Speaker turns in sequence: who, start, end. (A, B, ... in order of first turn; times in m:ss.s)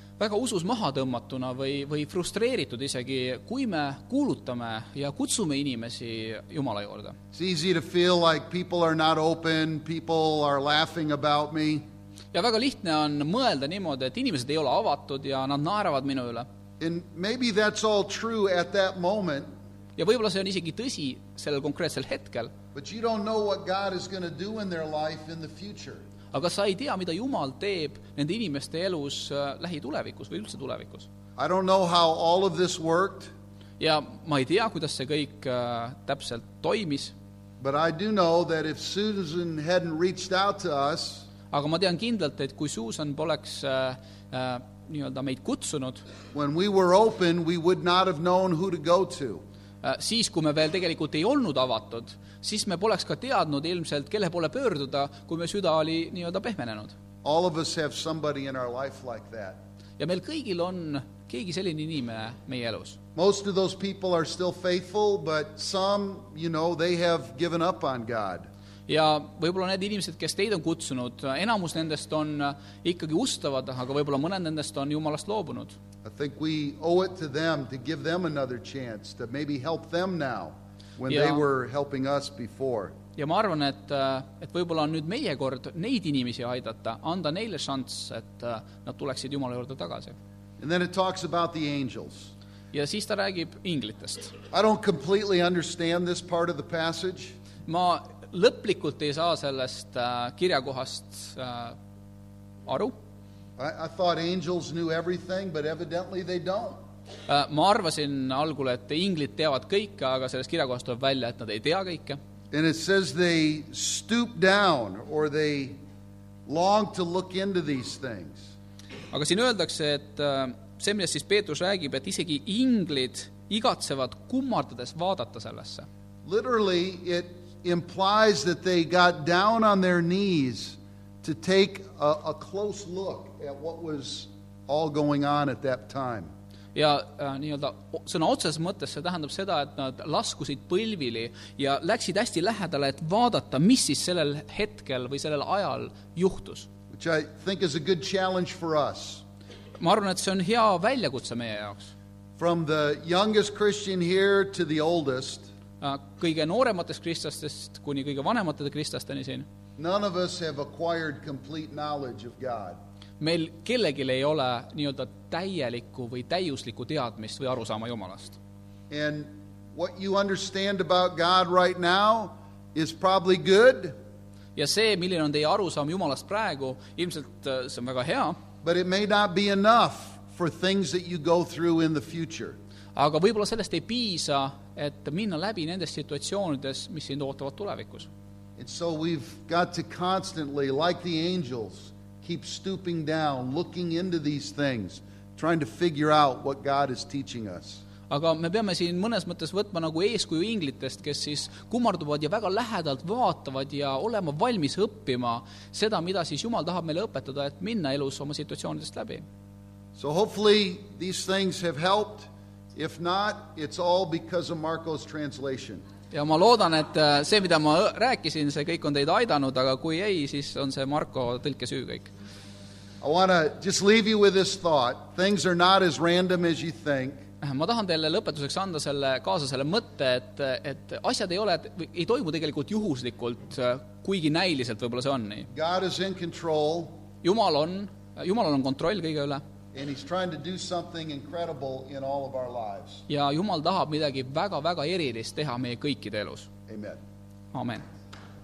0:00.2-0:07.2 A
0:07.3-0:11.8 B
0:12.3-0:16.5 A
0:16.8-0:19.5 B
0:20.0-0:22.5 A
0:22.8-0:26.0 B
0:26.3-0:31.1 A
0:31.4-0:33.3 B
0:33.8-0:37.2 A
0:37.6-0:41.2 B
0:41.5-0:46.0 A
0:46.3-0:49.4 B
0:49.8-0:56.9 A
0:57.2-0:59.6 B
1:00.0-1:03.0 A
1:03.2-1:08.5 B
1:08.9-1:15.8 A
1:16.0-1:22.9 B
1:21.1-1:21.4 A
1:23.2-1:30.2 A
1:30.6-1:32.3 B
1:32.7-1:34.3 A
1:34.5-1:37.4 B
1:37.7-1:41.8 A
1:42.7-1:43.0 A
1:43.6-1:46.8 B
1:47.3-1:52.2 A
1:52.5-1:55.8 B
1:56.5-1:58.5 B
1:59.1-2:05.9 A
2:06.2-2:16.3 B
2:16.8-2:26.7 A
2:26.9-2:29.2 B
2:29.8-2:31.9 A
2:32.4-2:35.5 B
2:35.8-2:39.5 A
2:39.8-2:42.8 B
2:43.2-2:48.4 A
2:48.9-2:54.0 B
2:54.6-2:58.4 A
2:58.6-3:02.6 B
3:03.0-3:08.1 A
3:08.6-3:17.8 B
3:18.1-3:29.2 A
3:30.0-3:35.8 B
3:36.1-3:42.1 A
3:43.0-3:47.2 B
3:47.4-3:55.5 A
3:55.5-3:57.0 B
3:57.2-3:59.4 A
3:59.7-4:03.0 B
4:03.1-4:06.5 A
4:06.7-4:07.0 B
4:07.5-4:07.8 A